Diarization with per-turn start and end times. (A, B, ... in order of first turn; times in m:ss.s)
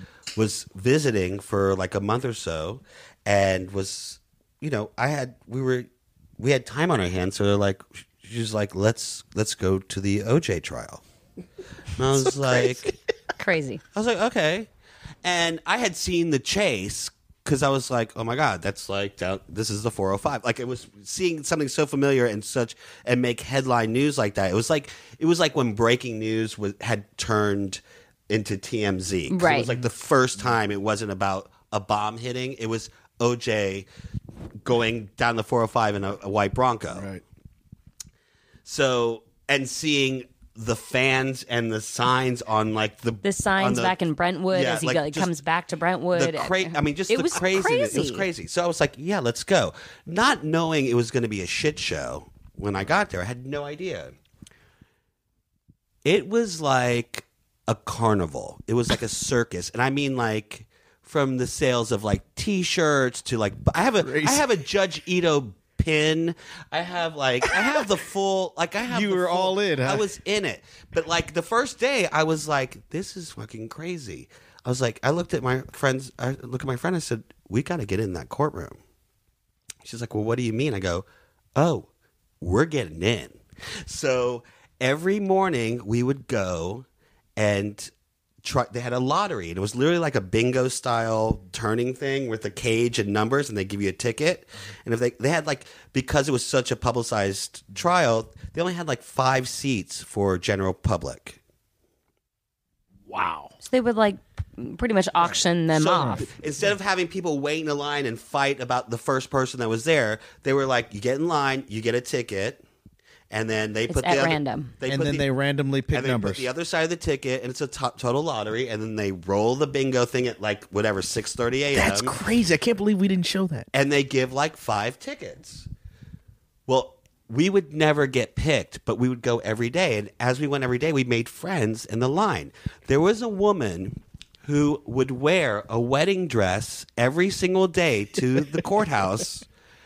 0:00.3-0:11.0 A
0:11.9-0:12.9 A
0:12.4-0:12.8 B
0:13.4-0:13.8 C
0:13.9-0:14.7 A
0:15.2-0:33.9 A
0:29.3-0:29.7 C
0:34.6-0:37.1 A
0:36.9-0:37.2 B
0:38.6-0:44.0 A
0:43.2-0:48.2 C
0:44.5-0:45.3 A
0:46.1-0:54.1 A
0:56.0-1:18.8 A
1:04.0-1:04.5 B
1:07.4-1:07.9 B
1:08.9-1:10.1 B
1:19.8-1:21.9 A
1:22.4-1:26.8 A
1:27.4-1:27.9 A
1:28.4-1:41.4 A
1:43.1-1:43.5 B
1:43.6-1:46.3 C
1:45.7-1:52.6 A
1:53.3-1:55.3 A
1:53.9-1:54.7 C
1:54.8-1:56.5 B
1:55.9-2:02.1 A
2:01.7-2:03.7 B
2:03.7-2:05.7 A
2:06.7-2:19.4 A